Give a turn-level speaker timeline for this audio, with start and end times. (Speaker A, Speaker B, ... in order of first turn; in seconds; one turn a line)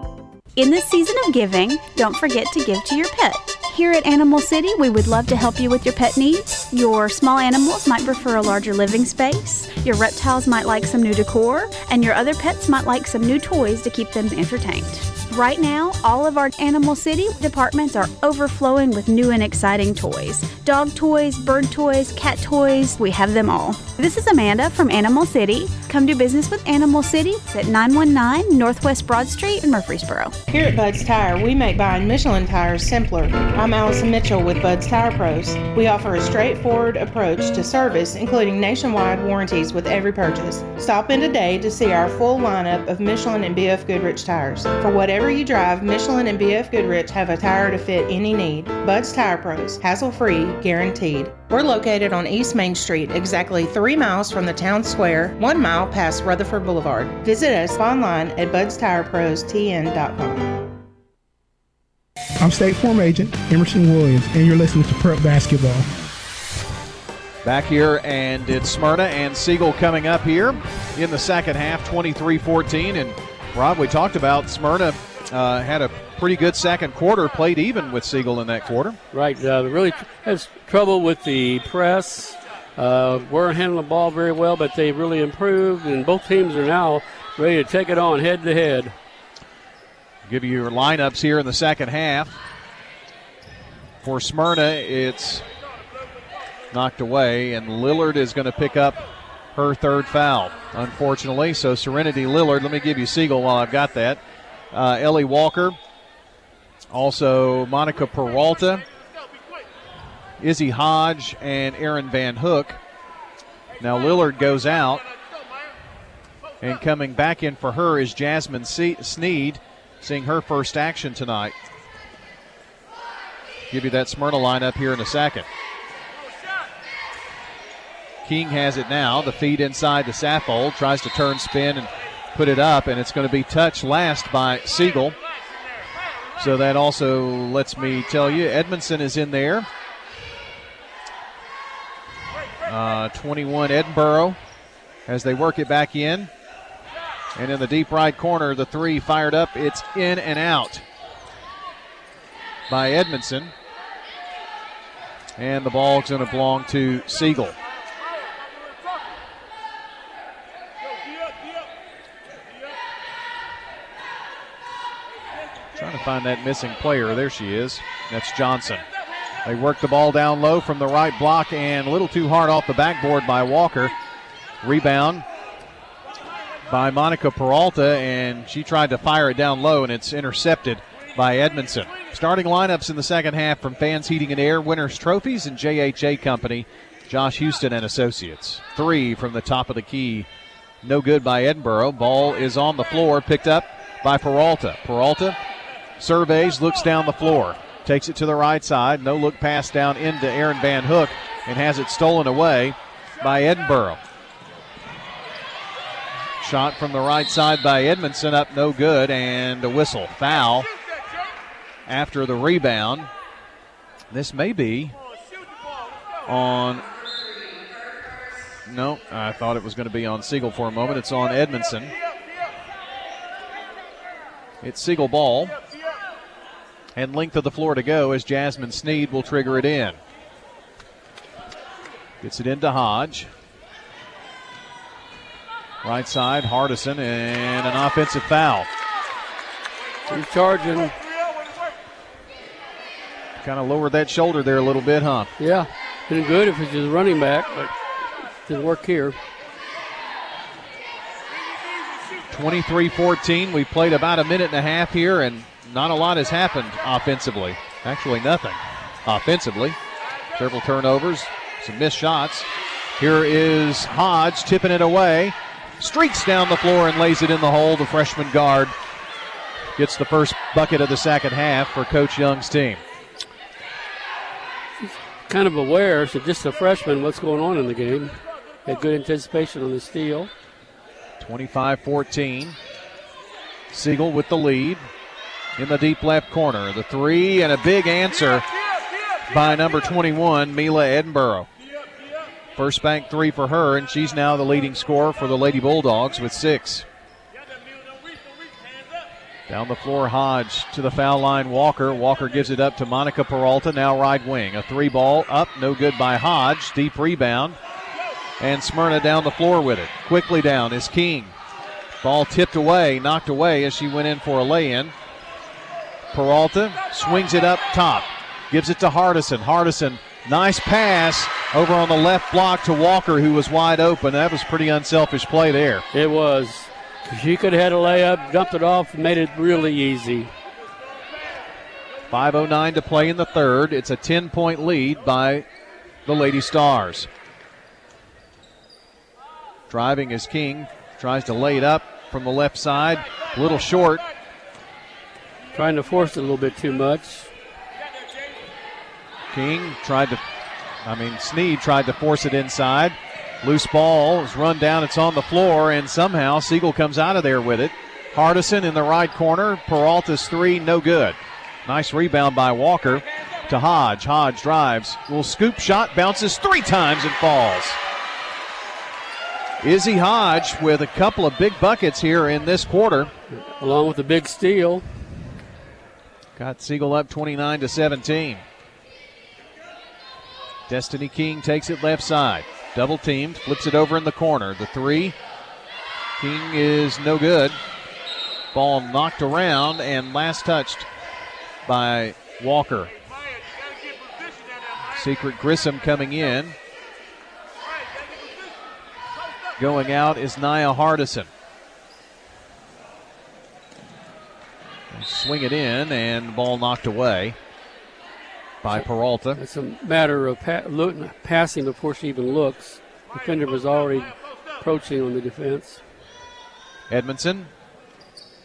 Speaker A: 0.6-30.3
Speaker B: 30.5-60.5
Speaker C: 62.4-65.8
Speaker D: 67.4-79.0
Speaker E: 79.1-88.9
Speaker D: 90.2-92.4
Speaker D: 94.0-95.5
Speaker D: 96.7-105.8
Speaker D: 106.9-108.8
Speaker D: 110.4-112.8
Speaker D: 113.8-115.0
Speaker D: 116.6-121.5
Speaker D: 123.7-125.5
Speaker D: 128.2-135.2
Speaker D: 136.4-139.7
Speaker D: 142.6-144.4
Speaker D: 145.1-146.3
Speaker D: 147.3-150.8
Speaker D: 152.7-153.5
Speaker D: 155.4-157.6
Speaker D: 165.7-168.8
Speaker D: 169.4-173.9
Speaker D: 174.6-175.2
Speaker D: 176.7-190.3
Speaker D: 190.8-195.4
Speaker D: 196.0-204.0
Speaker D: 206.4-210.7
Speaker D: 211.8-213.1
Speaker D: 214.1-214.9
Speaker D: 216.2-216.8
Speaker D: 218.6-221.9
Speaker D: 224.6-225.6
Speaker D: 226.9-230.0
Speaker D: 232.2-233.3
Speaker D: 235.8-238.7
Speaker E: 240.1-240.9
Speaker D: 243.4-245.3
Speaker E: 245.4-247.7
Speaker E: 248.4-249.2
Speaker D: 252.3-259.8
Speaker D: 260.4-268.7
Speaker D: 269.8-272.8
Speaker E: 274.8-280.3
Speaker D: 281.2-282.6
Speaker D: 283.7-284.9
Speaker D: 285.6-288.4
Speaker D: 289.3-291.5
Speaker D: 292.6-296.9
Speaker D: 299.5-307.6
Speaker D: 308.4-311.3
Speaker D: 312.0-314.9
Speaker D: 316.1-325.8
Speaker E: 325.9-330.3
Speaker D: 332.1-335.4
Speaker D: 336.1-337.1
Speaker D: 339.7-344.0
Speaker E: 345.5-347.3
Speaker D: 349.3-350.2
Speaker D: 350.8-367.8
Speaker D: 369.6-373.1
Speaker E: 373.3-374.9
Speaker D: 376.4-378.4
Speaker D: 380.7-385.1
Speaker D: 386.2-387.6
Speaker D: 388.5-390.9
Speaker D: 391.6-392.9
Speaker D: 394.9-396.6
Speaker D: 399.6-401.3
Speaker D: 404.9-407.4
Speaker D: 408.6-409.4
Speaker E: 409.3-415.8
Speaker D: 416.9-417.5